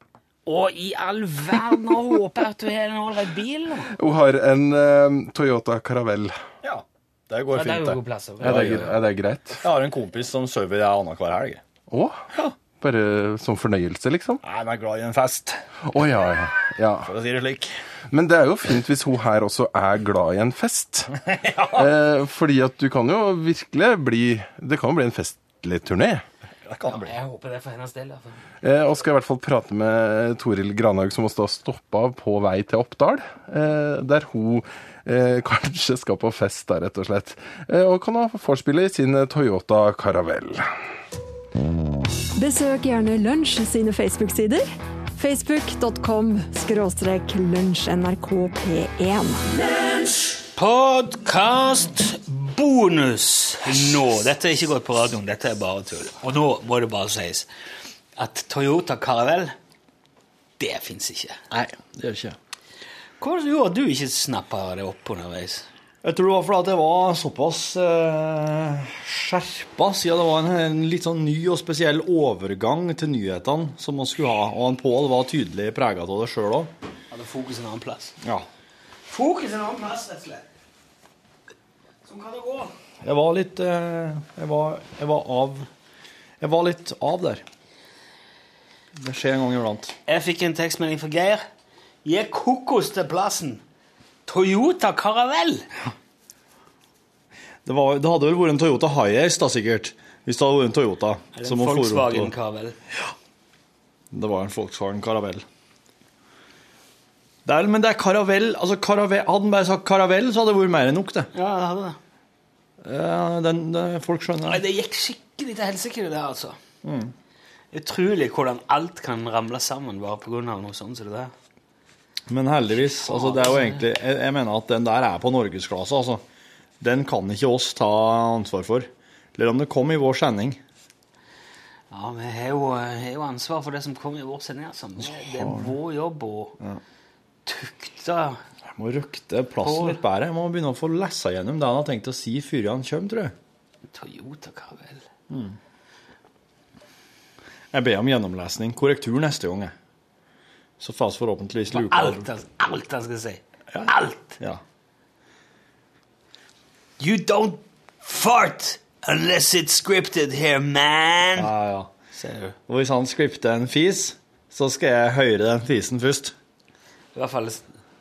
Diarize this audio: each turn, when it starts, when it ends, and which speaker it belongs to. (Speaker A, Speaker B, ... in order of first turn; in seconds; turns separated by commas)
Speaker A: 0.5-3.9, Speaker B: 4.0-6.4, Speaker C: 6.6-9.0, Speaker A: 7.5-9.0, Speaker B: 8.4-9.6, Speaker C: 9.6-11.6, Speaker B: 11.9-12.2, Speaker B: 12.8-14.4, Speaker C: 14.4-15.6, Speaker B: 15.8-17.1, Speaker C: 17.0-17.8, Speaker B: 18.1-21.2, Speaker C: 21.2-21.9, Speaker B: 21.7-26.2, Speaker C: 26.6-27.2, Speaker A: 26.9-28.5, Speaker B: 28.6-40.7, Speaker D: 42.4-44.7, Speaker D: 45.2-49.4, Speaker A: 50.5-57.5, Speaker A: 58.2-59.6, Speaker A: 60.6-61.4, Speaker C: 61.5-62.4, Speaker A: 63.2-65.7, Speaker C: 66.0-76.7, Speaker A: 77.1-78.2, Speaker C: 78.2-78.5, Speaker A: 79.1-80.5, Speaker A: 82.1-82.7, Speaker C: 83.0-85.7, Speaker C: 86.4-87.4, Speaker C: 88.9-89.9, Speaker A: 90.1-91.4, Speaker A: 92.0-93.6, Speaker A: 94.3-95.7, Speaker C: 97.7-102.3, Speaker A: 101.3-102.8, Speaker C: 104.1-105.5, Speaker C: 107.5-111.3, Speaker A: 111.3-112.0, Speaker C: 112.8-114.6, Speaker A: 114.5-116.6, Speaker C: 116.8-117.1, Speaker A: 117.7-121.3, Speaker C: 122.3-126.2, Speaker A: 122.7-123.8, Speaker C: 126.8-130.6, Speaker A: 131.9-136.6, Speaker C: 135.0-135.7, Speaker A: 137.5-138.4, Speaker C: 138.7-143.3, Speaker A: 139.6-140.0, Speaker A: 143.9-145.0, Speaker C: 145.3-145.6, Speaker C: 147.7-149.7, Speaker C: 150.8-152.3, Speaker A: 151.7-154.4, Speaker C: 153.7-154.6, Speaker A: 157.0-161.5, Speaker C: 161.4-161.9, Speaker A: 162.2-162.6, Speaker C: 162.7-166.3, Speaker A: 167.2-167.7